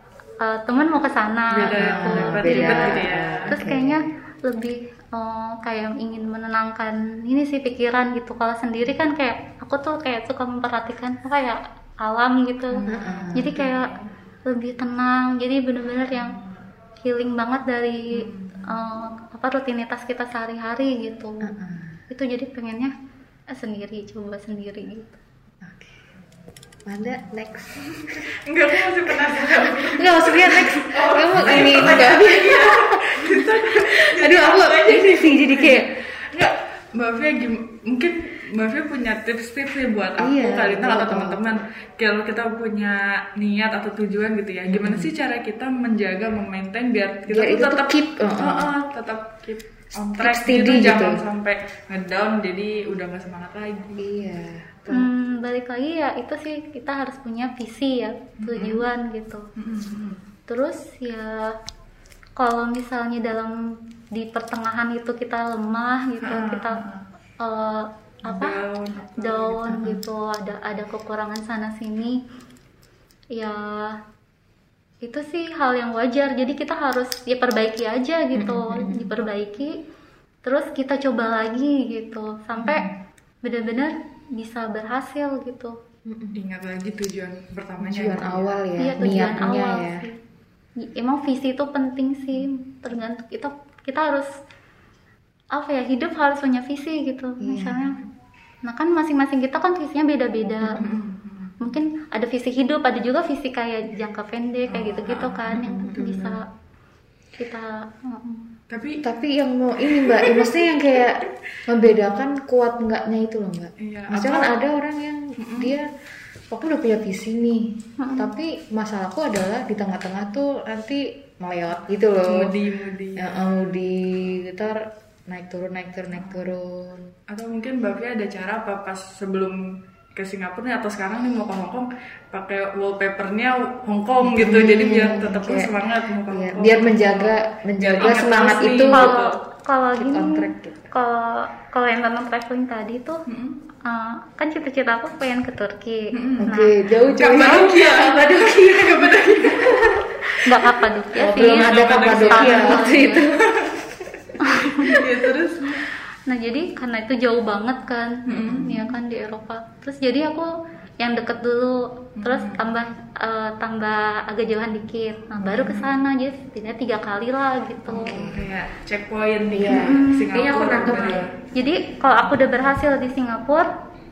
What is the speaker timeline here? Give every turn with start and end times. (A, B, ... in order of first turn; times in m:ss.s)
0:00.4-0:13.9 A
0:01.5-0:03.6 B
0:01.6-0:04.0 C
0:12.7-0:14.1 B
0:12.9-0:13.6 C
0:14.5-0:16.4 A
0:17.0-0:21.5 A
0:18.2-0:18.7 B
0:21.4-0:22.0 C
0:22.1-0:22.9 A
0:23.5-0:25.2 A
0:25.6-0:26.1 C
0:26.9-0:28.2 C
0:27.8-0:54.1 B
0:28.9-0:35.9 C
0:40.2-0:41.4 C
0:44.7-0:45.1 C
0:47.3-0:48.7 C
0:50.2-0:51.2 C
0:54.0-0:55.1 C
0:54.9-0:59.5 A
0:58.4-0:58.8 B
0:59.6-1:00.2 B
1:00.5-1:01.6 A
1:02.4-1:06.8 A
1:06.2-1:07.0 B
1:07.4-1:08.6 A
1:08.3-1:09.8 B
1:09.2-1:12.2 A
1:09.7-1:10.0 C
1:13.3-1:14.0 A
1:15.0-1:19.8 A
1:18.4-1:19.2 C
1:20.4-1:22.9 A
1:22.6-1:22.9 C
1:23.4-1:25.8 A
1:26.1-1:26.4 C
1:26.4-1:28.6 B
1:27.8-1:30.1 C
1:28.8-1:30.2 A
1:30.8-1:34.3 A
1:35.5-1:38.0 A
1:37.4-1:38.0 C
1:38.6-1:40.8 A
1:40.8-1:41.7 B
1:41.6-1:46.5 A
1:44.7-1:45.6 B
1:45.5-1:46.4 C
1:47.4-1:48.5 A
1:48.7-1:49.0 B
1:49.0-1:55.9 C
1:49.8-1:51.4 B
1:53.8-1:54.6 B
1:55.4-1:55.8 B
1:56.5-2:02.6 C
1:58.0-1:58.3 A
2:02.2-2:03.6 B
2:03.2-2:07.2 C
2:07.3-2:09.6 B
2:10.1-2:19.4 B
2:14.2-2:19.2 C
2:18.8-2:23.2 A
2:20.0-2:20.9 C
2:23.3-2:23.6 B
2:23.8-2:26.8 A
2:26.1-2:26.5 B
2:26.4-2:30.5 C
2:27.0-2:30.1 B
2:27.3-2:27.6 A
2:30.4-2:33.2 A
2:31.1-2:34.0 C
2:31.4-2:33.8 B
2:34.3-2:35.9 B
2:34.4-2:35.0 A
2:36.3-2:48.2 A
2:38.3-2:38.9 B
2:38.4-2:38.9 C
2:42.2-2:42.7 B
2:45.4-2:45.9 B
2:47.9-2:48.5 C
2:48.1-2:51.3 B
2:49.5-2:51.3 C
2:49.7-2:53.7 A